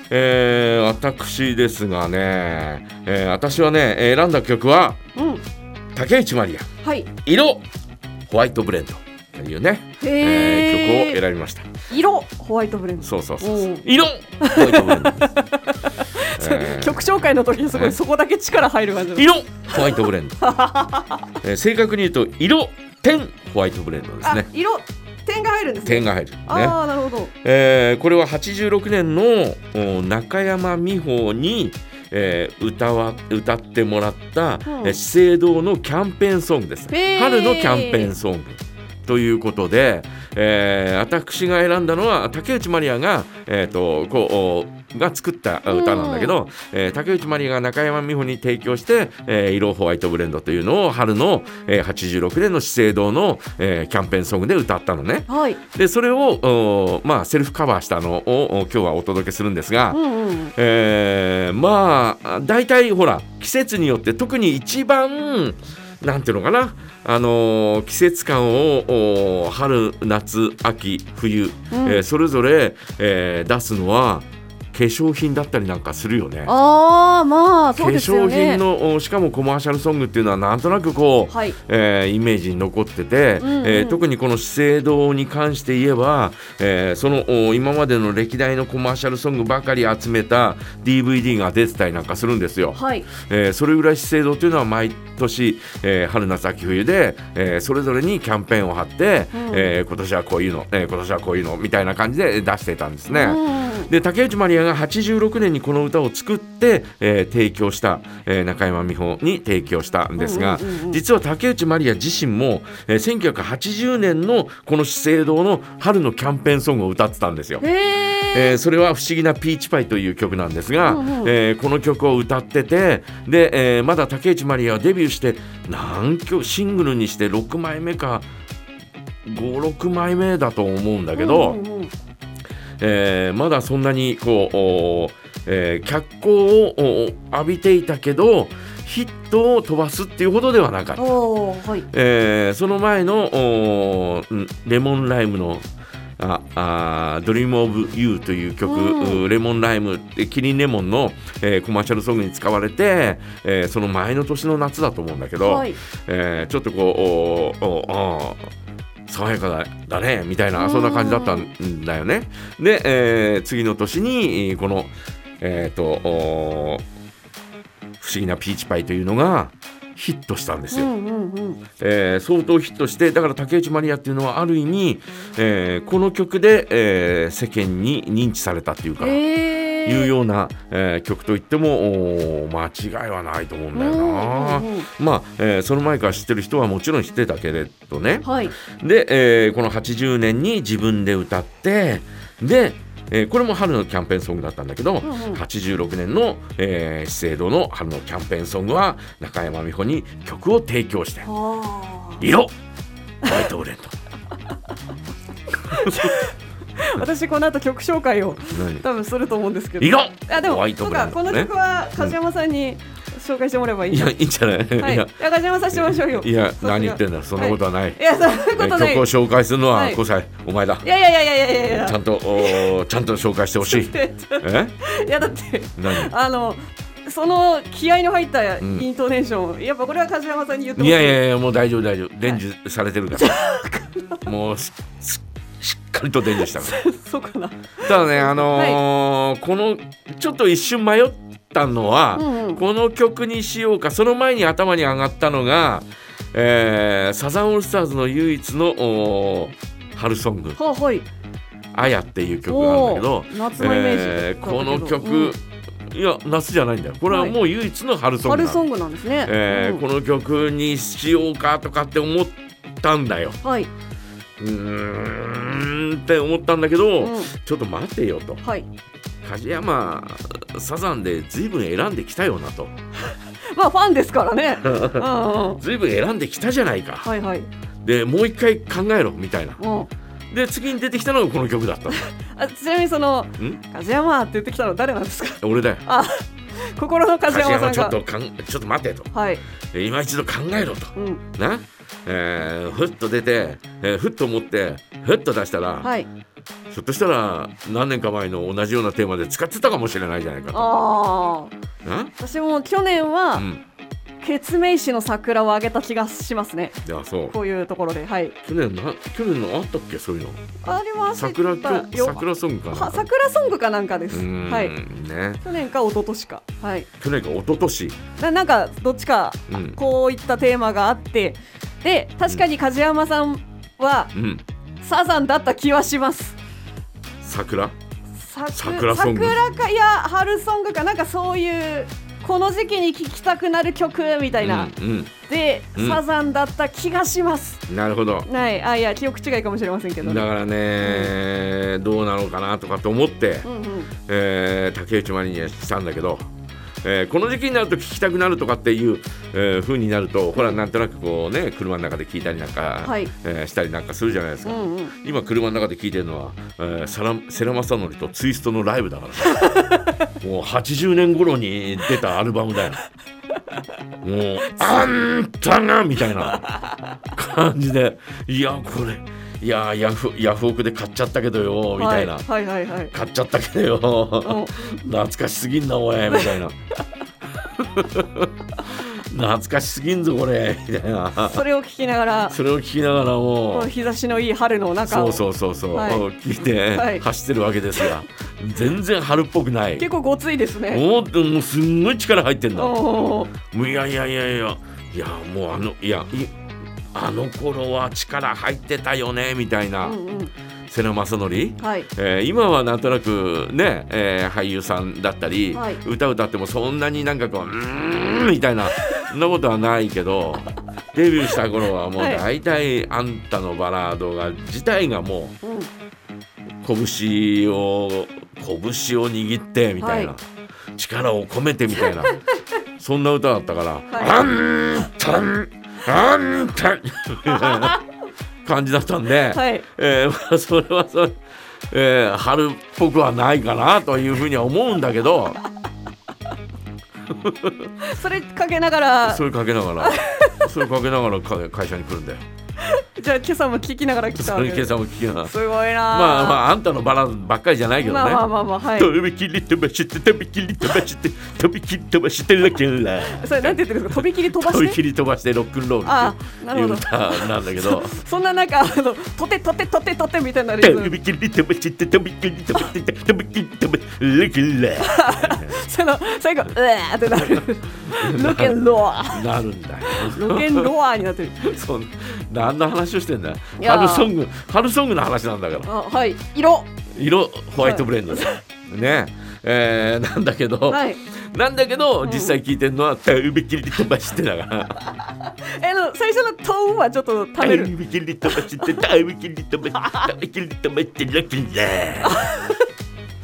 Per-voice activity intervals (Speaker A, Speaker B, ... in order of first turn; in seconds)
Speaker A: 0.1-5.0, 6.0-6.7, 7.2-7.6, 8.3-11.7, 13.0-15.3, 16.3-17.1, 17.7-18.0, 19.2-20.4, 21.4-24.5, 25.9-26.8, 27.4-60.0, 60.5-76.5, 77.8-117.6, 118.3-128.3, 129.2-131.6, 132.8-141.1, 141.9-145.6, 146.2-158.5, 159.1-166.8, 168.0-170.9, 171.8-179.2, 179.8-201.3, 202.2-202.5, 203.2-203.9, 205.8-206.2, 208.5-208.8, 209.8-212.2, 213.9-215.2, 215.7-218.0, 218.5-220.9, 221.7-224.8, 225.8-226.1, 230.8-233.4, 234.2-236.8, 237.8-250.6, 251.8-258.6, 259.2-263.4, 264.4-268.4, 269.2-272.7, 274.6-277.1, 277.8-279.6, 280.3-282.1, 285.4-285.8, 287.3-289.1, 289.7-295.9, 296.7-300.7, 301.8-302.1, 303.4-303.6, 306.9-307.4, 308.4-310.4, 311.1-313.1, 314.1-315.4, 317.0-318.0, 319.5-319.8, 324.1-324.4, 327.2-327.7, 328.5-329.4, 334.4-335.1, 335.8-336.0, 337.7-338.3, 340.0-343.5, 344.1-346.3, 346.8-359.5, 360.2-362.8, 364.0-366.4, 367.1-372.3, 372.9-376.6, 377.4-381.4, 382.3-383.7, 384.9-389.9, 390.7-392.8, 393.4-396.3, 396.9-400.0, 400.7-415.4, 416.6-420.2, 420.8-422.2, 422.8-427.8, 428.4-431.2, 431.7-435.4, 437.1-437.7, 439.1-442.2, 444.2-458.0, 460.6-465.6, 467.1-468.6, 469.1-470.7, 471.4-475.7, 476.9-484.9, 487.4-492.2
Speaker B: 5.2-5.4, 6.8-7.1, 10.0-11.2, 11.9-13.9, 14.4-21.3, 24.2-27.3, 34.7-35.0, 36.9-38.1, 45.7-46.4, 55.3-55.6, 59.9-60.5, 71.7-72.0, 76.5-78.6, 81.3-81.6, 83.4-84.0, 92.7-93.1, 99.3-99.7, 103.1-103.9, 110.2-111.0, 117.6-118.6, 120.8-121.3, 131.2-131.9, 141.0-141.9, 148.7-149.2, 155.4-155.8, 160.6-161.5, 170.7-171.6, 179.0-180.1, 183.8-184.9, 188.2-188.5, 195.0-195.4, 201.2-202.3, 205.7-214.1, 214.8-219.1, 219.7-220.0, 220.8-222.8, 223.6-231.2, 233.1-234.3, 236.4-238.8, 242.2-242.6, 250.6-251.1, 252.5-255.3, 257.1-257.4, 258.2-259.8, 263.4-263.7, 267.0-267.3, 268.4-268.7, 273.5-275.6, 277.0-277.5, 279.6-279.9, 281.9-288.0, 289.1-289.4, 291.0-291.2, 295.8-296.1, 300.5-301.5, 302.2-303.5, 304.2-308.4, 310.6-314.8, 315.4-316.9, 318.2-324.1, 324.8-326.4, 328.2-334.7, 335.3-337.6, 338.3-341.1, 343.4-343.9, 352.8-353.1, 354.4-354.9, 359.4-359.9, 364.6-364.9, 366.2-366.8, 371.8-372.9, 374.2-374.6, 376.1-376.4, 381.2-382.4, 383.5-386.1, 386.7-387.0, 389.8-390.8, 392.6-393.3, 399.8-400.3, 401.6-401.9, 405.5-405.8, 412.0-412.2, 415.4-415.7, 419.8-420.1, 421.8-422.1, 423.9-424.2, 427.3-427.8, 429.3-429.7, 437.8-439.2, 439.8-440.5, 442.6-446.4, 447.8-448.9, 453.0-454.8, 455.8-460.9, 464.8-469.2, 469.9-471.5, 473.6-474.1, 475.6-476.7, 477.6-478.4, 480.7-481.0, 482.0-482.4, 485.4-487.7, 488.2-488.8, 492.0-492.6